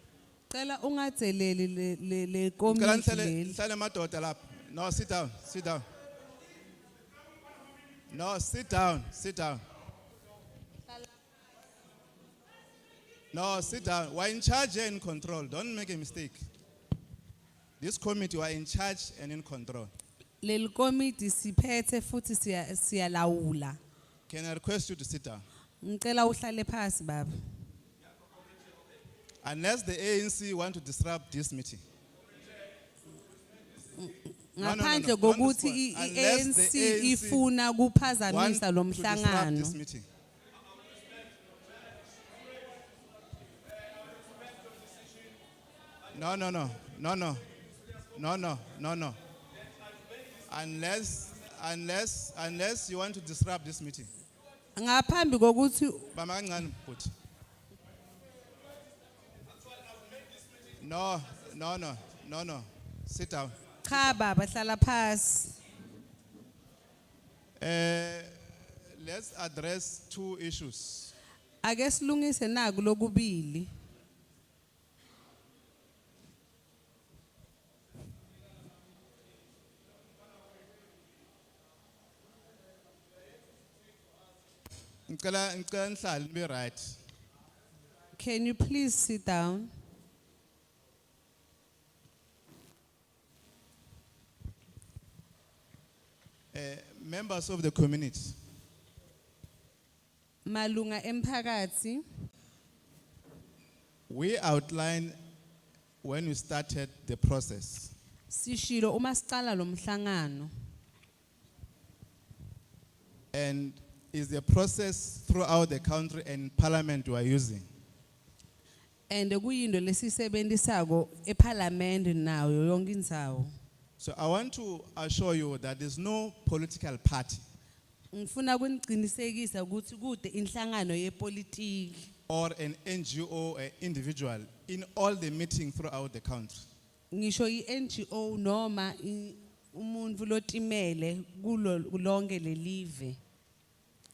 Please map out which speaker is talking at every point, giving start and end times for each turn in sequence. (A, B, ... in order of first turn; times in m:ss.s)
0:00.5-0:03.6 A
0:02.6-0:05.8 B
0:08.1-0:09.6 B
0:13.3-0:16.4 B
0:17.8-0:19.9 B
0:20.4-0:23.8 A
0:24.3-0:25.4 B
0:25.8-0:27.3 A
0:29.4-0:31.8 B
0:34.0-0:39.7 A
0:34.6-0:37.4 B
0:38.3-0:40.0 B
0:46.1-0:47.4 B
0:48.1-0:49.2 B
0:50.5-0:54.1 B
0:54.8-0:56.1 A
0:56.1-0:57.1 B
1:00.8-1:04.2 B
1:03.8-1:05.6 A
1:07.6-1:08.3 B
1:08.9-1:11.1 B
1:11.6-1:13.7 A
1:25.1-1:27.0 B
1:28.1-1:29.7 A
1:36.5-1:38.4 B
1:40.4-1:42.0 A
1:44.1-1:45.2 B
1:46.0-1:47.9 B
1:48.3-1:50.5 A
1:53.3-1:57.6 B
1:59.1-2:03.5 A
2:04.0-2:07.4 B
2:08.1-2:12.1 A
2:12.3-2:16.7 B
2:17.1-2:23.2 A